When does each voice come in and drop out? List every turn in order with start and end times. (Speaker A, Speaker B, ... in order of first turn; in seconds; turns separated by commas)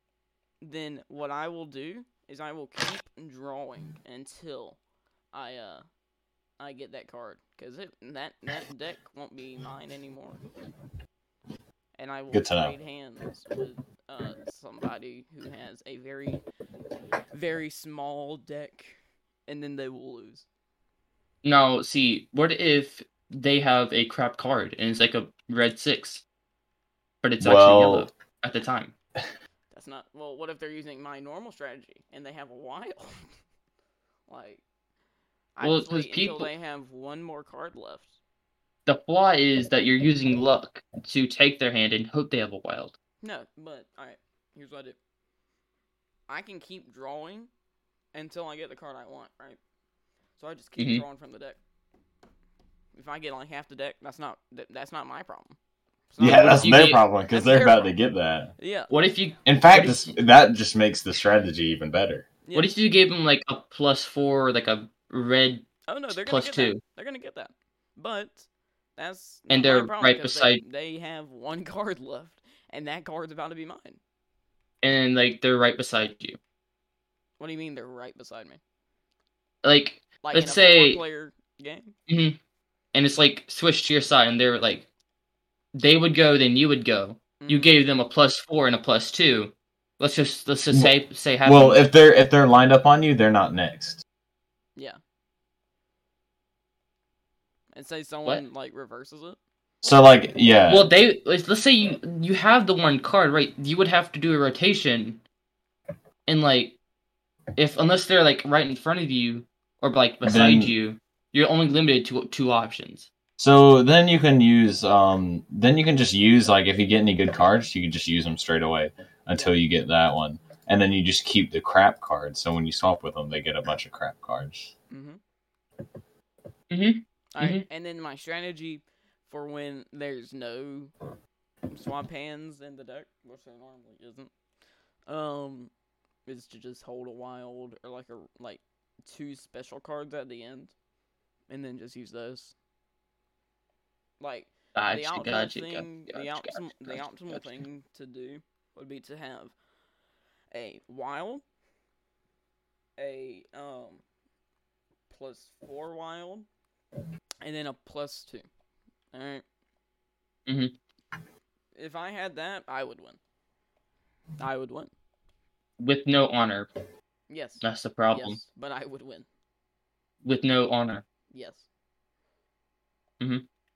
Speaker A: 0.6-4.8, Speaker A: 5.3-5.8, Speaker A: 6.6-10.4, Speaker A: 12.0-16.4, Speaker B: 12.3-12.7, Speaker A: 17.3-20.4, Speaker C: 21.4-26.2, Speaker C: 27.2-28.9, Speaker B: 27.4-28.1, Speaker A: 29.7-33.3, Speaker A: 34.3-34.6, Speaker A: 35.6-38.2, Speaker C: 35.6-36.5, Speaker C: 38.9-42.9, Speaker A: 43.2-45.0, Speaker A: 46.3-47.5, Speaker A: 48.1-49.6, Speaker A: 50.4-51.6, Speaker C: 50.8-51.0, Speaker A: 52.9-55.6, Speaker A: 56.1-56.6, Speaker B: 56.2-58.5, Speaker C: 56.2-57.0, Speaker A: 57.3-57.9, Speaker A: 58.6-58.9, Speaker C: 58.9-60.1, Speaker B: 59.4-62.2, Speaker A: 62.4-62.7, Speaker C: 62.5-66.8, Speaker A: 65.9-74.0, Speaker C: 69.5-70.6, Speaker C: 74.8-76.4, Speaker A: 77.4-78.6, Speaker C: 79.6-81.0, Speaker A: 80.2-81.9, Speaker C: 82.1-82.4, Speaker C: 82.9-84.9, Speaker C: 85.8-91.8, Speaker A: 87.4-87.8, Speaker B: 90.7-94.0, Speaker A: 97.7-99.4, Speaker B: 99.8-100.9, Speaker C: 100.7-105.2, Speaker C: 106.3-106.8, Speaker C: 107.6-113.1, Speaker B: 110.2-110.7, Speaker B: 113.4-124.7, Speaker A: 124.9-125.2, Speaker C: 126.7-127.6, Speaker A: 127.3-130.9, Speaker A: 131.7-134.3, Speaker A: 135.1-135.7, Speaker A: 136.2-140.7, Speaker A: 141.5-142.5, Speaker A: 144.2-149.5, Speaker C: 144.8-147.6, Speaker A: 150.5-151.4, Speaker A: 153.0-154.0, Speaker A: 155.1-156.5, Speaker A: 157.4-158.5, Speaker A: 159.1-159.4, Speaker C: 160.5-160.7, Speaker A: 161.8-163.2, Speaker A: 164.4-164.9, Speaker C: 165.8-166.7, Speaker A: 167.3-169.3, Speaker C: 167.6-168.4, Speaker C: 170.2-171.0, Speaker A: 171.3-171.6, Speaker C: 173.2-173.4